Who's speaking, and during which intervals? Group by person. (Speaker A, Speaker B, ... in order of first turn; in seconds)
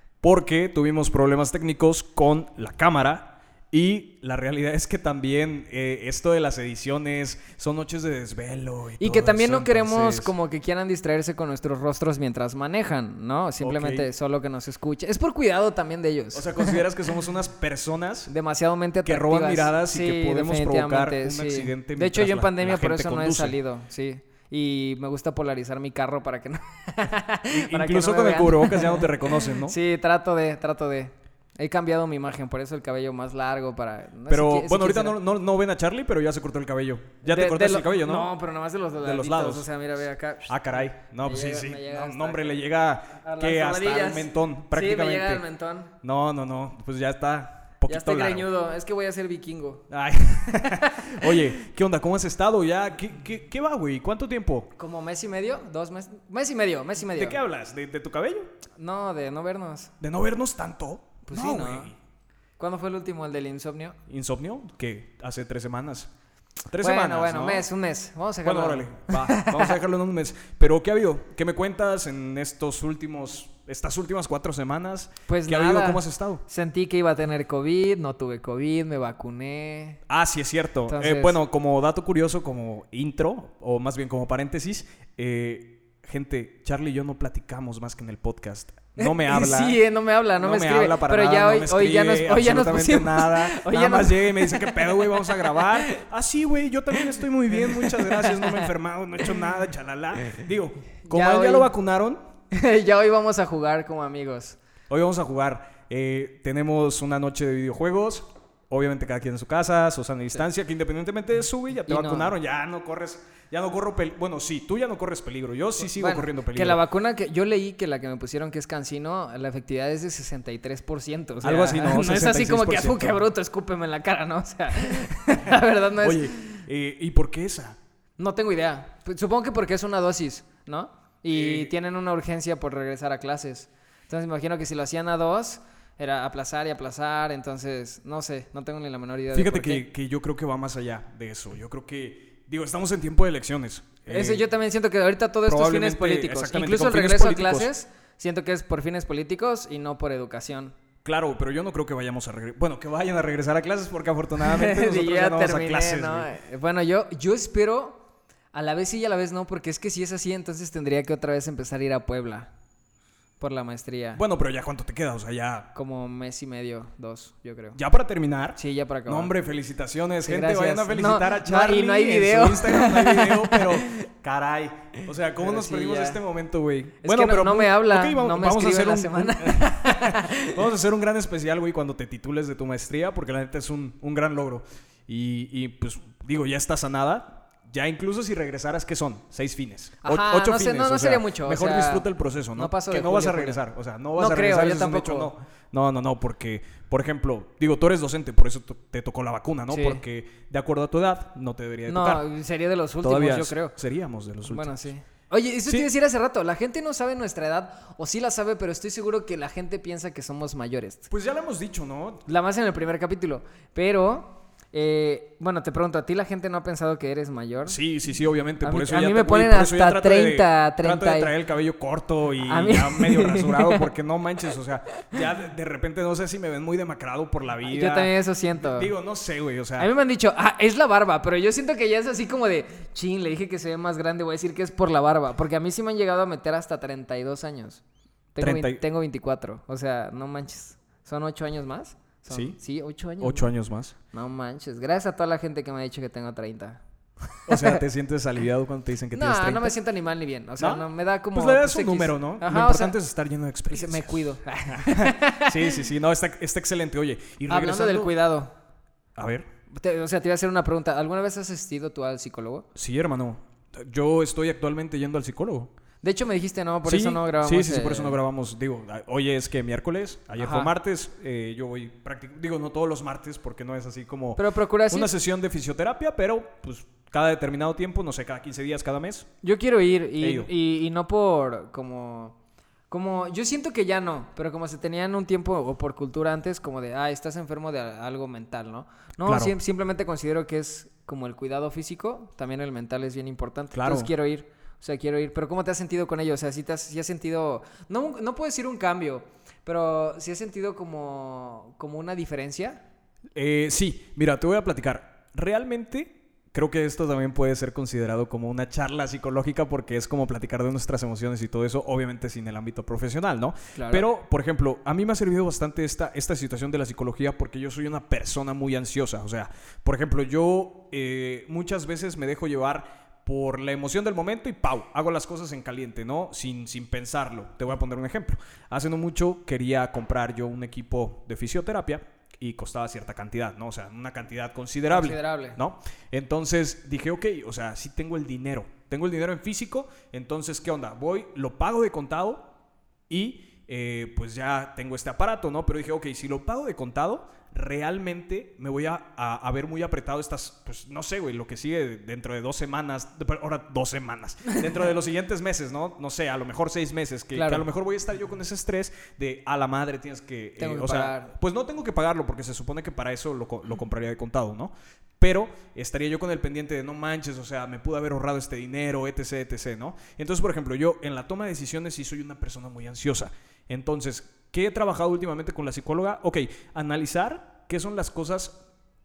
Speaker A: 0.2-10.3, 13.6-14.1, 16.3-18.3, 19.1-23.6, 27.5-29.8, 34.3-38.3, 39.0-39.7, 40.5-45.4, 46.0-48.5, 49.9-54.7, 57.1-58.5, 60.0-62.0, 64.1-66.1, 66.7-67.7, 68.4-76.4, 80.1-89.8, 90.4-102.2, 104.9-116.8, 121.4-123.2, 126.0-127.8, 131.3-131.7, 139.3-144.5, 145.5-147.7, 151.0-156.3, 164.1-165.7, 167.8-202.2, 203.0-204.9, 211.1-212.2, 217.7-229.9, 238.4-238.8, 242.3-242.6, 243.2-243.9, 247.4-249.8, 250.6-258.1, 259.2-259.5, 262.8-265.7, 266.9-279.3, 280.2-280.5, 289.2-289.6, 293.7-294.1, 303.4-342.5, 343.1-378.6
Speaker B: 9.0-16.8, 18.3-35.1, 37.2-42.6, 43.2-45.9, 47.9-49.9, 50.5-51.4, 54.8-57.4, 58.8-59.9, 61.3-61.9, 62.6-64.0, 66.8-69.8, 75.3-80.0, 80.9-81.4, 89.0-96.0, 97.0-98.7, 101.1-101.7, 102.5-104.6, 111.8-112.3, 115.8-126.6, 128.2-139.8, 144.1-150.8, 154.4-162.5, 163.4-164.2, 165.8-167.8, 168.6-169.3, 170.2-174.1, 175.4-176.2, 177.0-180.6, 190.0-193.6, 194.2-195.3, 199.7-200.0, 201.9-203.8, 204.5-211.1, 212.3-217.8, 218.6-221.3, 222.4-223.8, 227.6-228.9, 229.8-237.8, 238.3-243.5, 244.1-246.8, 247.4-247.8, 249.1-253.0, 253.7-255.8, 257.5-258.5, 259.7-262.7, 266.0-268.2, 270.4-270.7, 274.4-275.1, 279.4-282.4, 282.9-302.8, 313.8-314.0, 334.9-335.6, 357.3-357.7, 360.6-361.3